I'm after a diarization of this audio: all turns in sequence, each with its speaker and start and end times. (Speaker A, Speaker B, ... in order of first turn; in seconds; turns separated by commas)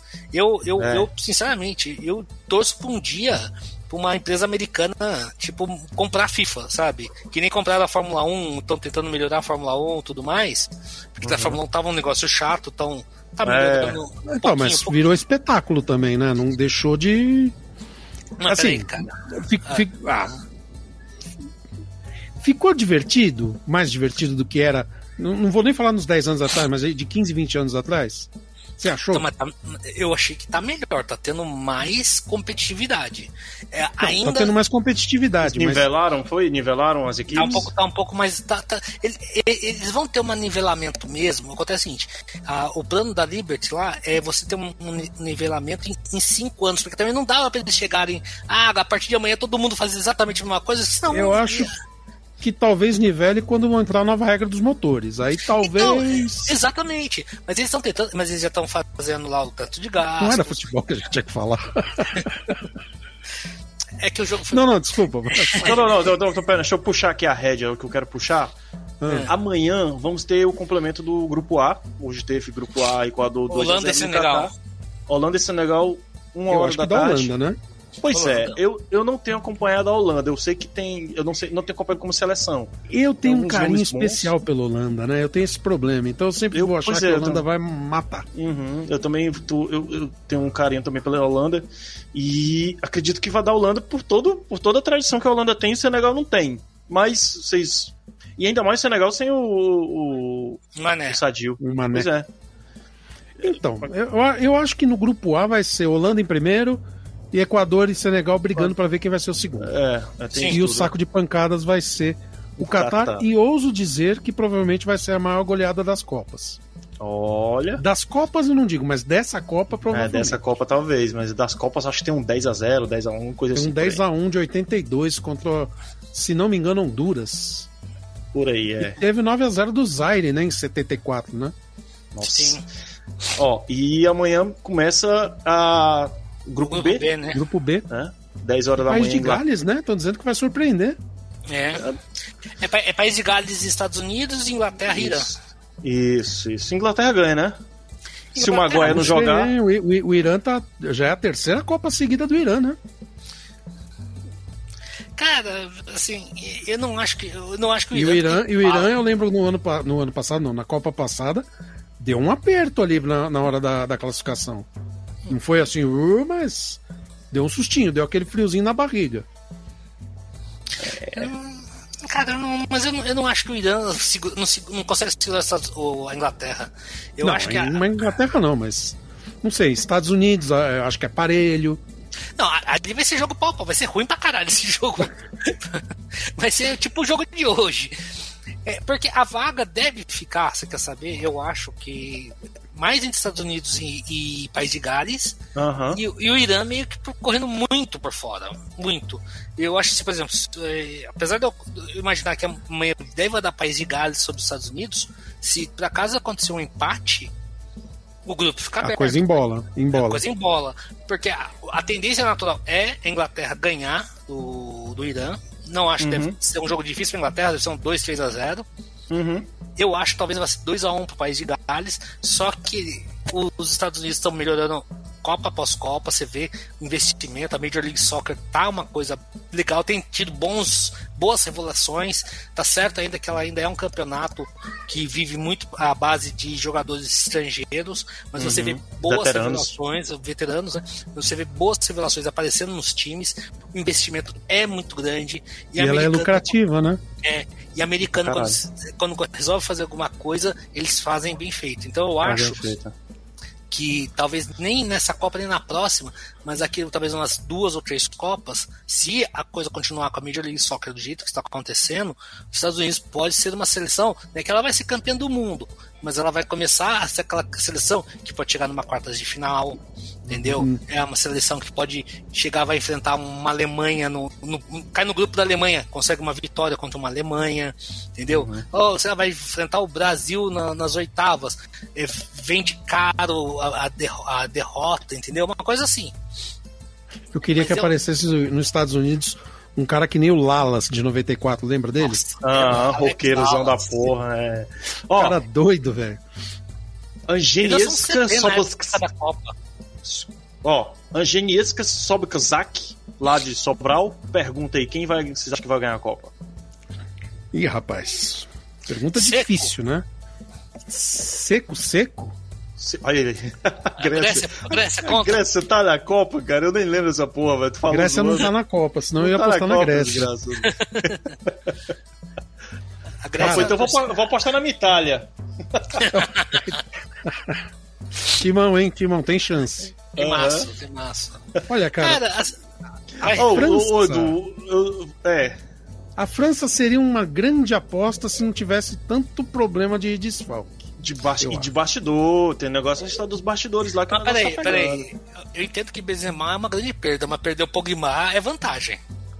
Speaker A: 0.3-15.0, Speaker B: 0.8-1.1, Speaker B: 11.2-11.6, Speaker B: 13.4-14.0, Speaker C: 14.2-17.5, Speaker A: 18.4-19.8, Speaker C: 18.4-20.4, Speaker C: 22.4-28.3, Speaker C: 28.8-29.3, Speaker A: 29.1-34.5, Speaker C: 34.0-35.8, Speaker B: 35.4-37.7, Speaker A: 37.3-51.7, Speaker C: 51.1-51.7, Speaker C: 52.4-56.5, Speaker A: 55.6-60.6, Speaker C: 60.2-62.5, Speaker A: 64.0-64.7, Speaker C: 64.5-65.7, Speaker A: 65.3-65.7, Speaker B: 65.6-68.5, Speaker C: 69.0-69.3, Speaker A: 69.0-69.3, Speaker B: 69.3-74.5, Speaker A: 73.5-74.5, Speaker B: 75.1-77.3, Speaker C: 76.5-77.6, Speaker B: 78.0-82.7, Speaker A: 78.1-78.6, Speaker C: 82.9-88.3, Speaker B: 83.2-84.3, Speaker B: 86.5-87.4, Speaker B: 88.3-102.3, Speaker A: 100.8-101.2, Speaker C: 101.6-102.1, Speaker B: 103.4-103.9, Speaker C: 103.4-106.8, Speaker C: 107.3-109.7, Speaker B: 109.6-110.9, Speaker C: 110.5-116.6, Speaker B: 112.6-113.2, Speaker B: 117.0-117.8, Speaker C: 117.8-120.4, Speaker B: 119.9-124.0, Speaker C: 123.5-127.7, Speaker B: 128.3-129.0, Speaker C: 128.8-131.5, Speaker B: 132.1-132.6, Speaker A: 132.2-132.6, Speaker B: 133.3-137.1, Speaker A: 136.6-137.4, Speaker C: 137.3-137.8, Speaker B: 137.9-139.4, Speaker C: 138.8-141.0, Speaker A: 141.5-141.8, Speaker A: 142.6-145.3, Speaker B: 144.9-145.3, Speaker B: 145.8-147.6, Speaker A: 148.3-149.2, Speaker B: 148.3-149.5, Speaker C: 148.8-152.8, Speaker A: 155.2-158.9, Speaker C: 157.9-161.4, Speaker C: 162.0-164.7, Speaker C: 165.3-166.8, Speaker C: 167.3-169.2, Speaker B: 170.8-171.3, Speaker A: 171.2-178.0, Speaker C: 177.2-181.8, Speaker A: 182.4-188.0, Speaker A: 188.6-195.4, Speaker B: 195.5-196.0, Speaker A: 195.9-207.3, Speaker A: 208.2-209.4, Speaker C: 208.8-210.2, Speaker A: 209.9-218.7, Speaker B: 216.0-216.3, Speaker B: 219.1-219.5, Speaker A: 219.8-246.5, Speaker B: 238.4-239.7, Speaker C: 245.8-247.0, Speaker A: 247.2-252.6, Speaker B: 248.2-248.6, Speaker B: 252.2-252.9, Speaker A: 253.7-286.1, Speaker B: 270.3-270.6, Speaker B: 278.3-278.6, Speaker C: 287.3-292.2, Speaker A: 287.6-287.9, Speaker A: 292.0-294.1, Speaker B: 292.4-295.4, Speaker C: 295.1-296.2, Speaker B: 297.3-299.0, Speaker A: 297.6-299.5, Speaker B: 300.1-306.3, Speaker C: 307.5-310.1, Speaker A: 309.1-309.7, Speaker C: 310.9-312.4, Speaker B: 312.8-318.5, Speaker A: 314.0-315.4, Speaker C: 317.9-320.3, Speaker B: 319.2-321.7, Speaker A: 320.7-321.3, Speaker A: 323.2-324.2, Speaker B: 323.4-326.1, Speaker C: 323.4-323.7, Speaker A: 326.0-326.8, Speaker C: 326.2-326.7, Speaker C: 327.2-327.6, Speaker C: 328.3-329.9, Speaker A: 330.1-331.4, Speaker B: 330.2-330.7, Speaker C: 331.6-332.2, Speaker A: 332.0-332.6, Speaker A: 333.2-333.6, Speaker C: 333.2-334.4, Speaker B: 333.3-335.6, Speaker C: 336.2-340.8, Speaker B: 341.0-345.1, Speaker C: 341.4-341.7, Speaker A: 344.1-349.0